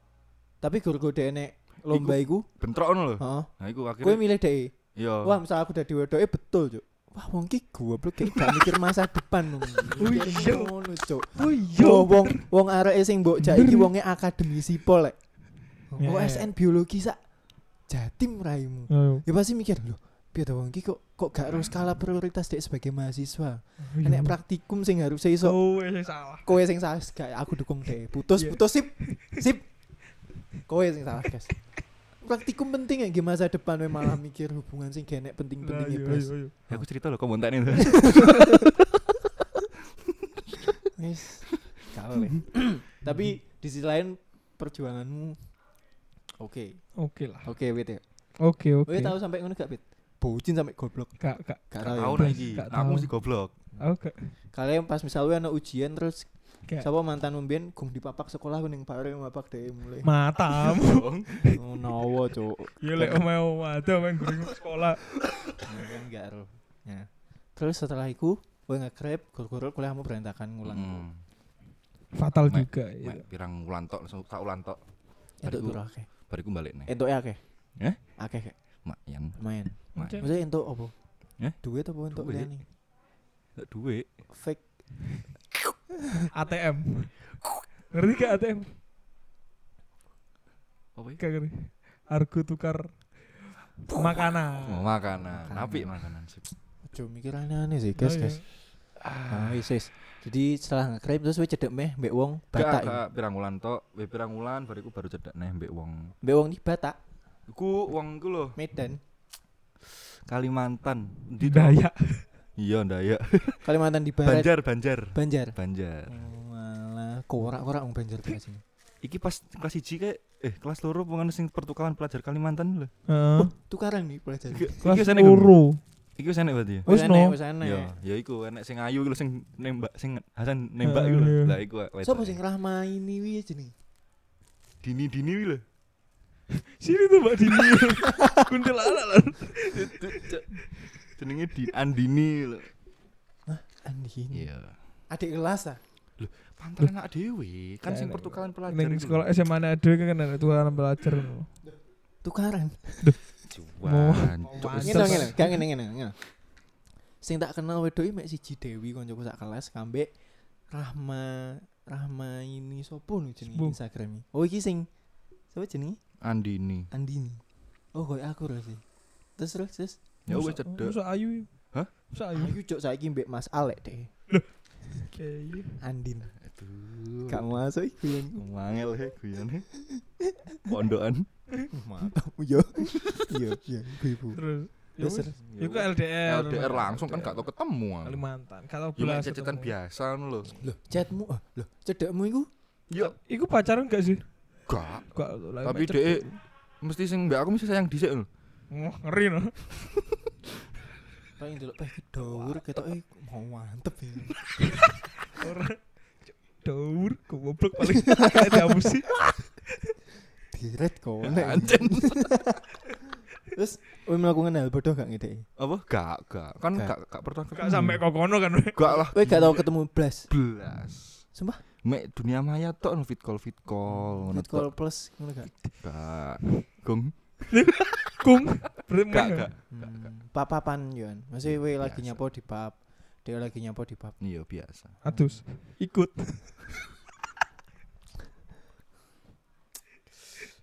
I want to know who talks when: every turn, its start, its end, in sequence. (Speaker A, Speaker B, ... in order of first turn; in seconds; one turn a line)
Speaker A: 0.6-2.5
Speaker B: 1.9-4.2
Speaker A: 3.2-15.2
Speaker B: 4.9-5.4
Speaker C: 10.0-10.7
Speaker C: 11.3-12.4
Speaker C: 13.4-13.9
Speaker A: 15.9-17.2
Speaker C: 16.0-16.5
Speaker A: 17.9-25.6
Speaker C: 18.9-19.2
Speaker C: 23.8-24.4
Speaker C: 25.4-26.5
Speaker A: 26.4-29.7
Speaker C: 28.3-29.4
Speaker A: 30.6-36.9
Speaker C: 35.6-36.5
Speaker B: 36.7-38.6
Speaker A: 40.9-45.4
Speaker A: 46.4-46.9
Speaker C: 47.0-47.5
Speaker A: 47.4-48.0
Speaker C: 48.4-49.1
Speaker A: 48.8-52.5
Speaker C: 51.2-53.1
Speaker B: 51.8-53.5
Speaker C: 53.8-54.3
Speaker A: 54.5-60.1
Speaker C: 60.0-61.6
Speaker B: 60.8-61.3
Speaker A: 61.5-63.2
Speaker C: 62.8-65.0
Speaker A: 65.6-71.1
Speaker B: 70.7-71.2
Speaker C: 72.1-73.2
Speaker B: 72.5-74.8
Speaker A: 75.4-76.1
Speaker B: 75.4-76.9
Speaker A: 76.8-77.4
Speaker B: 77.8-78.2
Speaker A: 78.2-78.6
Speaker B: 78.8-80.2
Speaker A: 79.4-80.9
Speaker C: 79.9-80.3
Speaker A: 81.6-82.6
Speaker B: 82.1-82.5
Speaker B: 83.6-84.1
Speaker A: 84.3-84.8
Speaker C: 86.3-87.2
Speaker C: 87.9-88.7
Speaker B: 91.0-91.2
Speaker C: 91.2-93.3
Speaker C: 93.9-94.9
Speaker B: 93.9-96.4
Speaker A: 95.2-96.0
Speaker A: 96.8-98.6
Speaker C: 98.0-98.4
Speaker B: 99.0-99.7
Speaker A: 99.3-103.0
Speaker B: 102.5-106.1
Speaker A: 106.2-107.0
Speaker B: 107.5-108.6
Speaker A: 108.5-109.0
Speaker B: 109.9-111.8
Speaker C: 111.4-112.2
Speaker B: 112.6-113.7
Speaker A: 113.6-114.5
Speaker B: 114.2-116.1
Speaker A: 115.1-115.5
Speaker A: 116.1-118.6
Speaker B: 119.0-122.9
Speaker C: 123.1-123.5
Speaker A: 123.3-125.0
Speaker B: 124.5-125.5
Speaker C: 124.8-125.8
Speaker B: 126.2-126.9
Speaker C: 126.8-127.4
Speaker A: 126.8-128.0
Speaker B: 127.6-132.4
Speaker C: 130.8-131.5
Speaker A: 132.0-133.7
Speaker B: 134.8-135.6
Speaker C: 136.6-140.2
Speaker B: 139.7-142.7
Speaker A: 143.5-144.5
Speaker B: 144.3-144.8
Speaker A: 145.1-145.8
Speaker B: 146.2-149.2
Speaker C: 147.8-151.5
Speaker A: 152.2-153.2
Speaker B: 153.5-155.4
Speaker C: 153.8-155.6
Speaker A: 154.8-156.2
Speaker A: 157.2-160.1
Speaker A: 160.7-164.9
Speaker C: 163.4-163.8
Speaker A: 165.5-166.0
Speaker B: 166.2-166.9
Speaker A: 166.9-167.4
Speaker A: 167.9-168.8
Speaker A: 169.3-170.0
Speaker B: 170.3-171.0
Speaker C: 170.3-172.6
Speaker A: 172.3-174.3
Speaker C: 175.1-175.8
Speaker A: 175.8-176.3
Speaker B: 176.4-177.4
Speaker A: 177.3-178.4
Speaker B: 178.3-179.7
Speaker A: 179.8-180.7
Speaker B: 180.7-181.3
Speaker A: 181.7-184.4
Speaker B: 182.9-183.4
Speaker C: 184.3-187.5
Speaker A: 185.0-185.4
Speaker B: 185.4-188.2
Speaker C: 188.0-189.7
Speaker B: 189.0-190.6
Speaker A: 190.6-192.5
Speaker B: 192.9-193.2
Speaker C: 193.0-194.3
Speaker B: 194.7-195.1
Speaker C: 195.1-196.4
Speaker B: 195.6-196.2
Speaker B: 196.8-198.3
Speaker C: 198.7-199.5
Speaker A: 201.4-204.4
Speaker C: 205.3-209.1
Speaker A: 210.5-212.8
Speaker B: 211.2-212.4
Speaker A: 213.5-215.4
Speaker B: 215.6-218.0
Speaker C: 217.5-219.1
Speaker B: 218.7-219.6
Speaker A: 219.1-220.3
Speaker B: 220.3-221.2
Speaker A: 221.3-221.6
Speaker B: 221.8-224.7
Speaker A: 223.9-225.5
Speaker B: 225.8-227.4
Speaker C: 227.5-229.5
Speaker B: 229.1-230.1
Speaker A: 229.7-234.2
Speaker B: 231.5-232.2
Speaker B: 234.2-235.0
Speaker C: 235.0-236.6
Speaker A: 235.0-235.4